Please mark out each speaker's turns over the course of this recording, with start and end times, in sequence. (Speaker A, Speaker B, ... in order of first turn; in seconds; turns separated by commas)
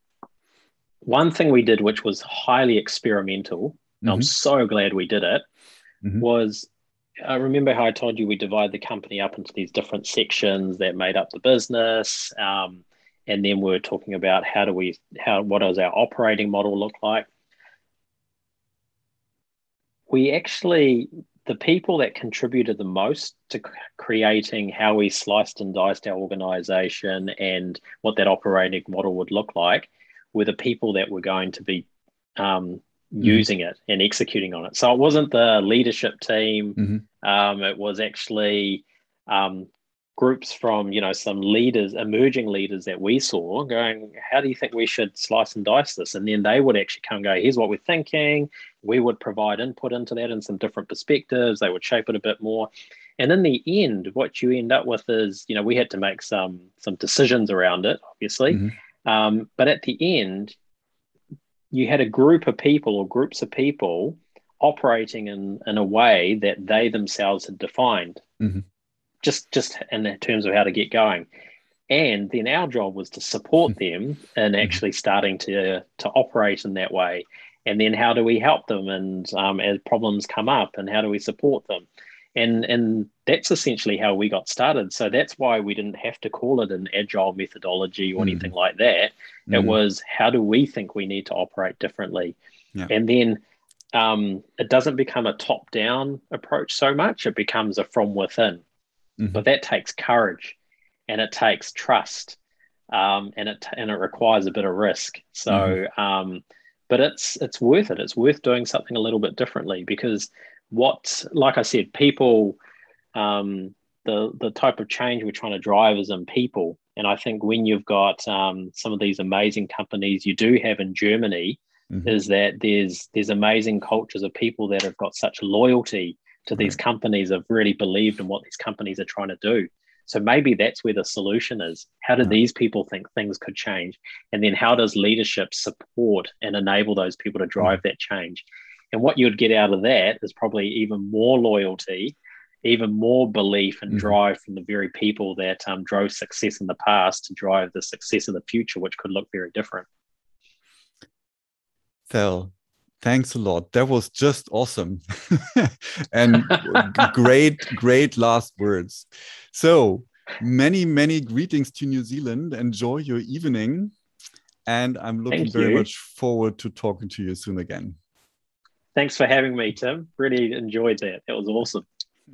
Speaker A: 1.0-5.5, Speaker B: 4.0-4.3, Speaker A: 6.2-6.7, Speaker A: 7.2-17.3, Speaker A: 20.1-31.9, Speaker A: 32.4-60.5, Speaker A: 61.7-68.2, Speaker B: 68.4-68.6, Speaker A: 69.2-71.3, Speaker A: 71.9-92.4, Speaker B: 88.2-88.5, Speaker B: 89.5-89.8, Speaker A: 92.9-93.4, Speaker A: 93.9-98.6, Speaker A: 99.3-100.5, Speaker A: 101.1-102.4, Speaker A: 102.9-112.6, Speaker B: 105.5-105.8, Speaker A: 113.1-149.8, Speaker B: 152.1-163.9, Speaker B: 164.7-168.0, Speaker A: 165.3-165.8, Speaker A: 168.9-171.8